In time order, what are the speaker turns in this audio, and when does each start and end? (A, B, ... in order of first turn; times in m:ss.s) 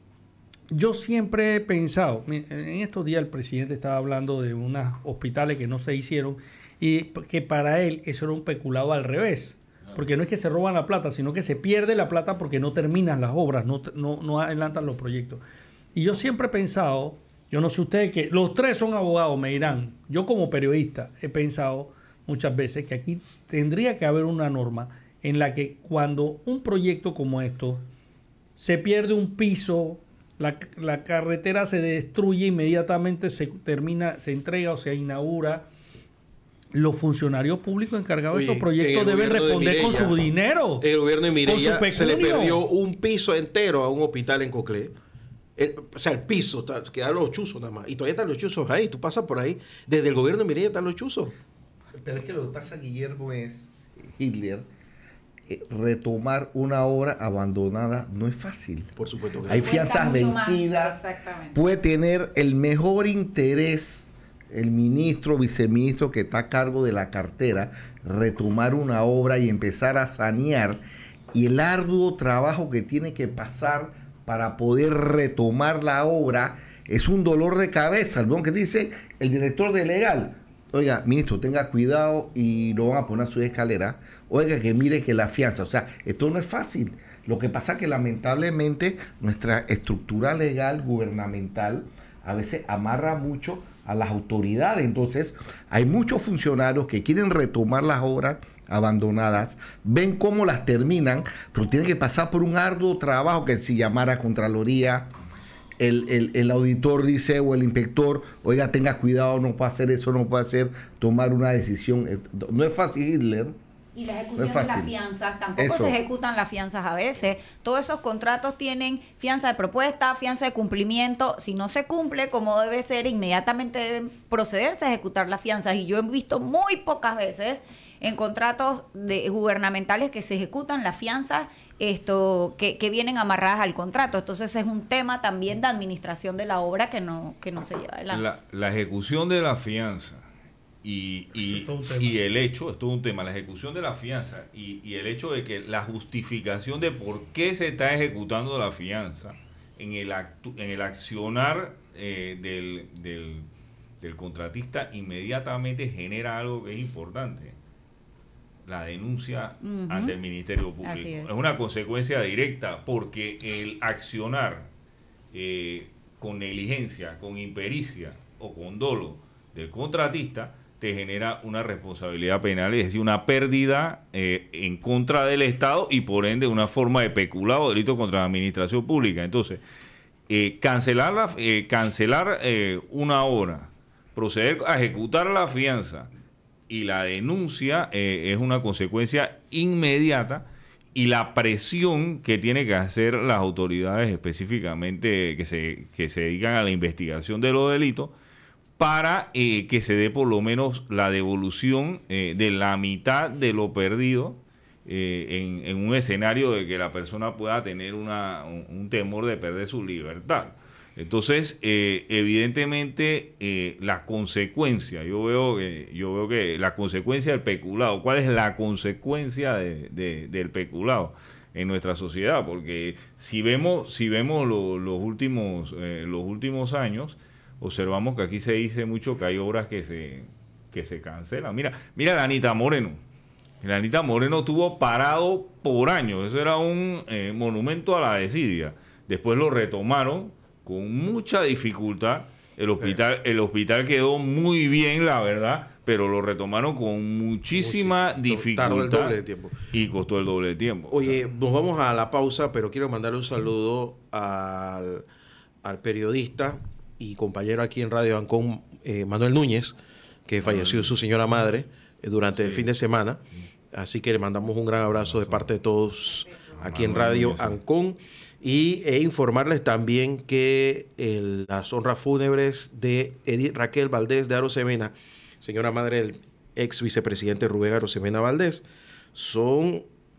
0:00.7-0:15.4 A
0:15.9-0:27.8 A
0:28.6-0:35.7 A
0:36.7-0:40.9 A
0:38.3-0:40.2 B
0:40.8-0:44.9 B
0:41.4-0:42.6 A
0:45.6-0:51.4 B
0:52.0-0:54.6 C
0:55.5-0:58.9 C
0:59.0-0:59.8 B
0:59.4-1:01.0 C
0:59.5-1:01.6 D
1:01.5-1:10.8 C
1:11.3-1:45.1 C
1:45.8-1:53.6 C
1:53.9-2:18.2 D
1:54.4-1:54.9 C
1:55.6-1:56.0 C
2:18.1-2:20.2 E
2:20.8-2:33.5 E
2:21.4-2:22.2 A
2:34.0-2:37.6 E
2:38.6-2:44.7 E
2:39.6-2:40.2 D
2:40.8-2:41.3 D
2:45.3-2:59.6 E
3:00.3-3:06.1 E
3:06.7-3:18.1 E
3:18.8-3:53.0 E
3:53.6-4:09.2 E
4:07.5-4:09.6 B
4:09.7-4:11.2 E
4:10.9-4:15.0 B
4:15.6-4:19.8 B
4:20.3-4:39.9 B
4:20.4-4:20.9 E
4:22.4-4:22.7 E
4:25.0-4:25.5 E
4:26.6-4:27.6 E